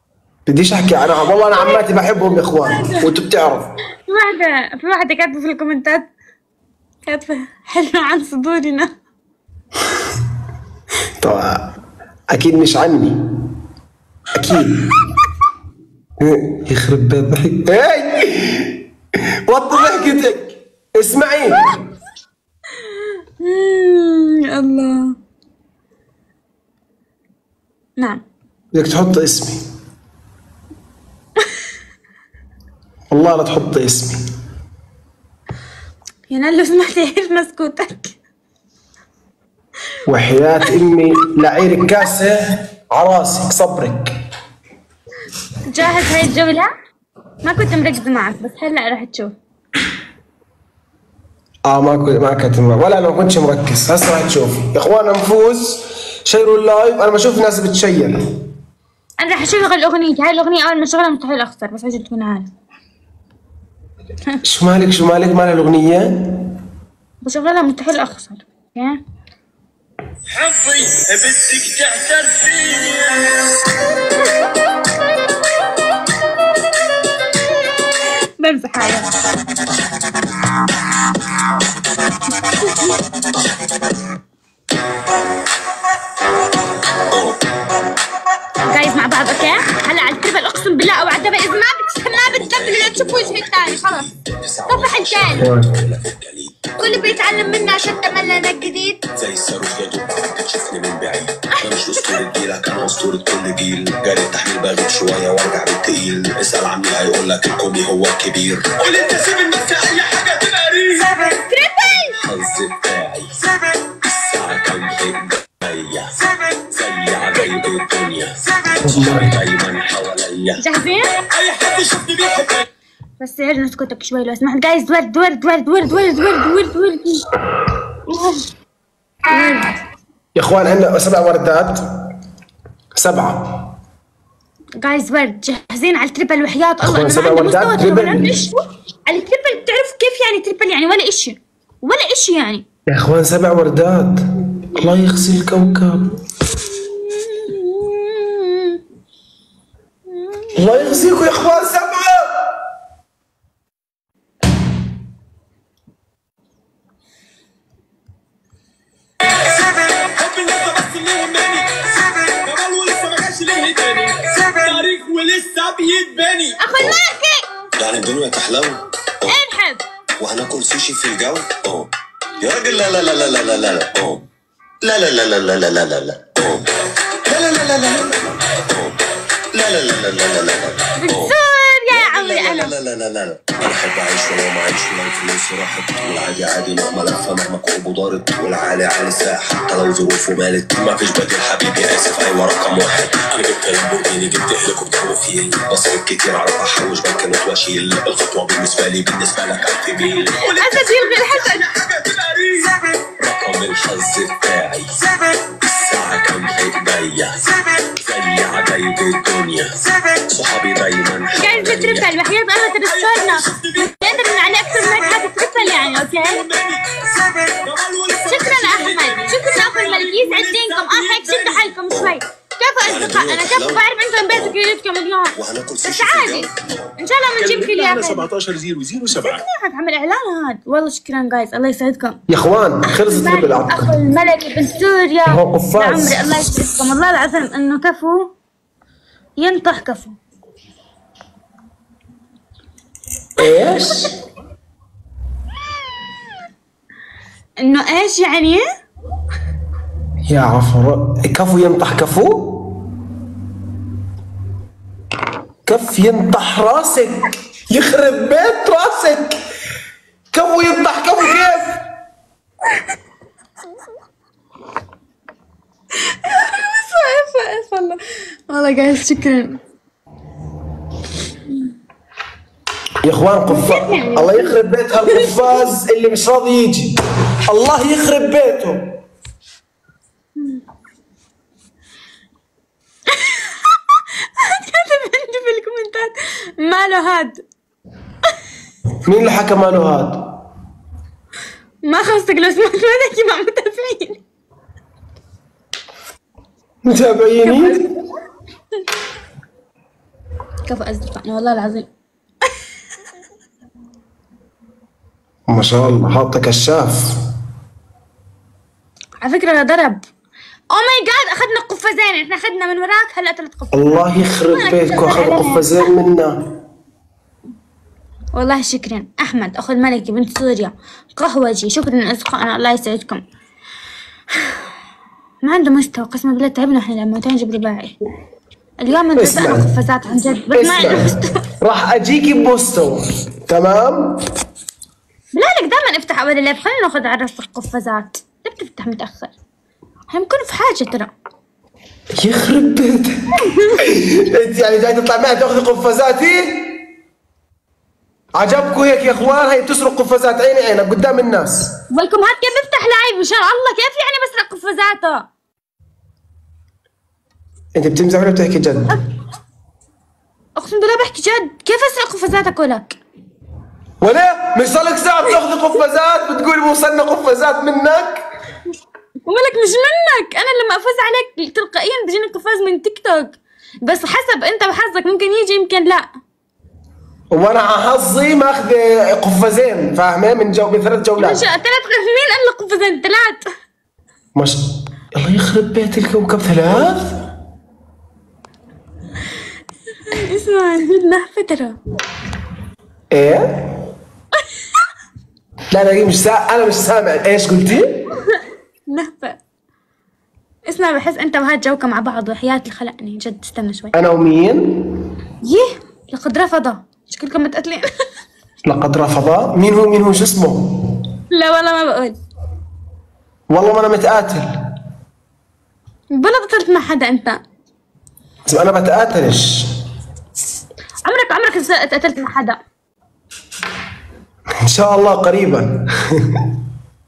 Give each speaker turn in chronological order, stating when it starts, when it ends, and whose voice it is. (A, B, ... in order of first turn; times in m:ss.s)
0:00.4-0:03.7 A
0:01.5-0:01.8 B
0:02.6-0:03.1 B
0:04.1-0:06.0 B
0:07.0-0:08.9 B
0:11.2-0:11.6 A
0:12.3-0:13.2 A
0:14.3-0:14.9 A
0:16.2-0:18.7 A
0:19.5-0:21.7 A
0:19.7-0:20.2 B
0:23.4-0:25.1 B
0:28.7-0:29.6 A
0:33.1-0:34.2 A
0:36.3-0:38.1 B
0:40.1-0:44.1 A
0:45.7-0:46.7 B
0:47.4-0:49.3 B
0:51.6-0:58.2 A
0:59.2-1:02.5 B
1:04.4-1:06.4 A
1:07.2-1:09.0 B
1:10.4-1:12.8 C
1:18.4-1:19.1 B
1:27.1-1:27.4 C
1:28.7-1:34.0 B
1:32.1-1:51.0 C
1:34.7-1:35.5 B
1:35.4-1:35.7 A
1:36.8-1:39.0 B
1:41.6-1:42.0 B
1:51.0-1:52.1 B
1:52.2-1:53.3 C
1:54.0-1:56.1 C
1:56.7-2:00.6 C
2:00.6-2:01.1 B
2:01.3-2:02.6 C
2:03.2-2:07.2 B
2:08.1-2:08.4 B
2:09.3-2:09.7 B
2:10.4-2:11.8 A
2:13.0-2:13.6 A
2:14.8-2:22.6 B
2:16.8-2:18.4 A
2:22.9-2:24.2 A
2:24.7-2:26.1 A
2:27.0-2:28.8 B
2:30.2-2:30.7 B
2:30.6-2:32.3 A
2:40.1-2:47.0 C
2:46.6-2:47.4 B
2:47.8-2:49.4 C
2:49.3-2:49.8 B
2:50.2-2:51.9 C
2:52.4-2:54.2 C
2:52.7-2:53.3 B
2:54.8-2:56.6 C
2:57.3-2:58.9 C
2:59.5-3:01.4 C
3:01.0-3:02.8 B
3:01.9-3:24.9 C
3:20.4-3:21.6 B
3:25.6-3:27.4 C
3:28.0-3:29.7 C
3:30.3-3:32.1 C
3:31.4-3:36.5 B
3:32.8-3:42.2 C
3:38.2-3:45.4 B
3:42.8-3:44.6 C
3:45.4-3:46.5 C
3:46.0-3:48.3 B
3:47.3-3:49.4 C
3:49.2-3:52.2 B
3:52.3-3:54.0 A
3:52.9-3:58.3 B
3:55.3-3:56.3 A
3:59.4-4:00.2 B
4:03.4-4:04.1 A
4:07.6-4:08.6 B
4:10.3-4:12.7 A
4:15.6-4:19.4 A
4:20.3-4:21.7 A
4:26.3-4:28.0 B
4:28.5-4:29.6 B
4:33.0-4:36.9 A
4:33.5-4:34.5 B
4:35.1-4:35.5 B
4:37.5-4:38.8 A
4:44.4-4:47.4 B
4:49.0-4:50.2 A
4:51.8-4:54.2 B
4:56.9-4:57.8 A
4:57.4-4:58.0 B
5:00.6-5:01.9 B
5:05.5-5:07.1 A
5:09.2-5:10.0 B
5:10.7-5:15.9 B
5:13.7-5:16.4 A
5:18.3-5:23.2 B
5:25.4-5:27.9 B
5:28.8-5:31.3 B
5:29.2-5:29.7 A
5:30.5-5:34.2 A
5:35.3-5:39.3 B
5:40.1-5:41.1 B
5:42.2-5:43.2 A
5:43.8-5:46.8 A
5:48.4-5:51.7 A
5:51.9-5:55.3 B
5:57.8-5:59.0 A
6:00.6-6:03.0 B
6:04.0-6:08.2 A
6:09.2-6:16.1 B
6:17.3-6:21.4 A
6:21.2-6:23.4 B
6:24.3-6:24.6 A
6:25.1-6:27.1 A
6:30.1-6:31.8 B
6:33.1-6:33.6 A
6:35.7-6:38.0 A
6:38.9-6:39.4 B
6:40.7-6:43.9 B
6:43.9-6:44.9 A
6:45.4-6:47.9 B
6:48.6-6:50.8 A
6:51.3-6:52.2 B
6:53.5-6:54.5 A
6:56.1-6:57.4 B
6:58.4-6:59.7 A
7:01.0-7:02.6 B
7:04.6-7:06.3 A